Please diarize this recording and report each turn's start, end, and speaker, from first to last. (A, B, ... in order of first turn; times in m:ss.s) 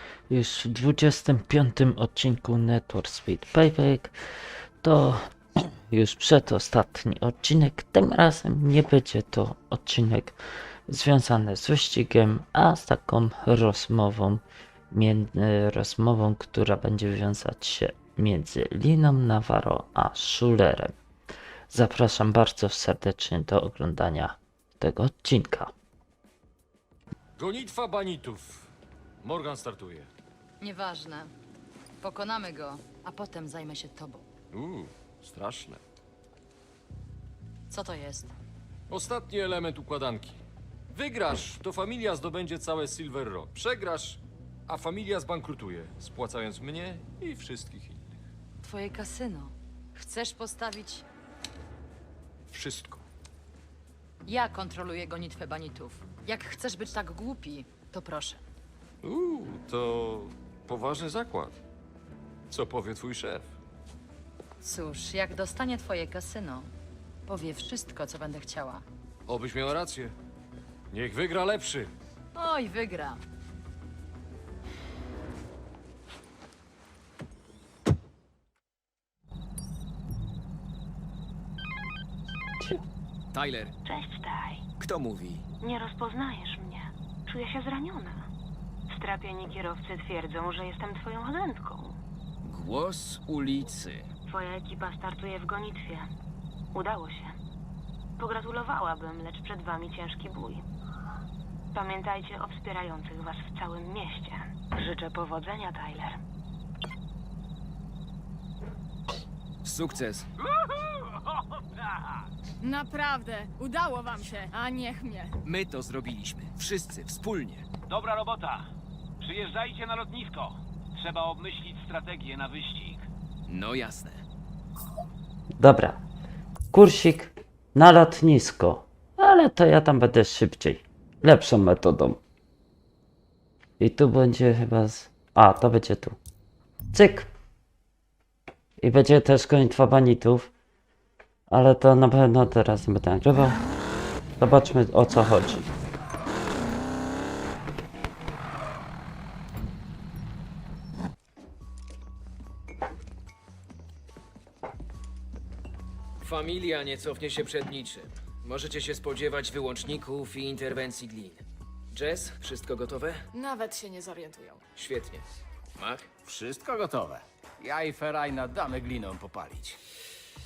0:00.3-0:04.1 A
0:04.8-0:10.4 A
0:10.9-0:20.9 A
0:21.7-0:25.7 A
0:27.4-0:28.7 B
0:29.2-0:30.1 B
0:30.6-0:31.3 C
0:32.0-0:34.2 C
0:34.5-0:35.8 B
0:37.7-0:38.3 C
0:38.9-0:40.4 B
0:40.9-0:48.1 B
0:48.6-0:51.0 C
0:52.5-0:53.0 B
0:54.2-0:58.4 C
0:59.0-1:01.5 B
1:02.5-1:03.5 B
1:04.6-1:06.7 C
1:07.3-1:08.8 C
1:09.3-1:10.1 B
1:10.9-1:11.9 B
1:12.3-1:13.2 C
1:23.3-1:23.7 D
1:23.9-1:24.6 E
1:24.8-1:25.4 D
1:25.6-1:28.3 E
1:28.9-1:32.0 E
1:32.4-1:34.0 D
1:34.3-1:36.1 E
1:36.7-1:37.4 E
1:38.2-1:40.6 E
1:41.7-1:46.2 E
1:49.6-1:50.3 D
1:52.8-1:55.3 F
1:55.5-1:57.6 D
1:57.9-1:58.6 G
1:59.2-2:03.0 G
2:03.5-2:04.2 D
2:05.6-2:06.0 A
2:06.7-2:12.2 A
2:13.8-2:16.2 A
2:16.9-2:17.3 A
2:18.8-2:20.5 A
2:21.5-2:23.6 A
2:24.4-2:25.7 A
2:36.2-2:41.4 D
2:41.9-2:43.2 D
2:43.4-2:44.6 F
2:44.8-2:45.2 D
2:45.8-2:46.1 D
2:46.2-2:49.8 H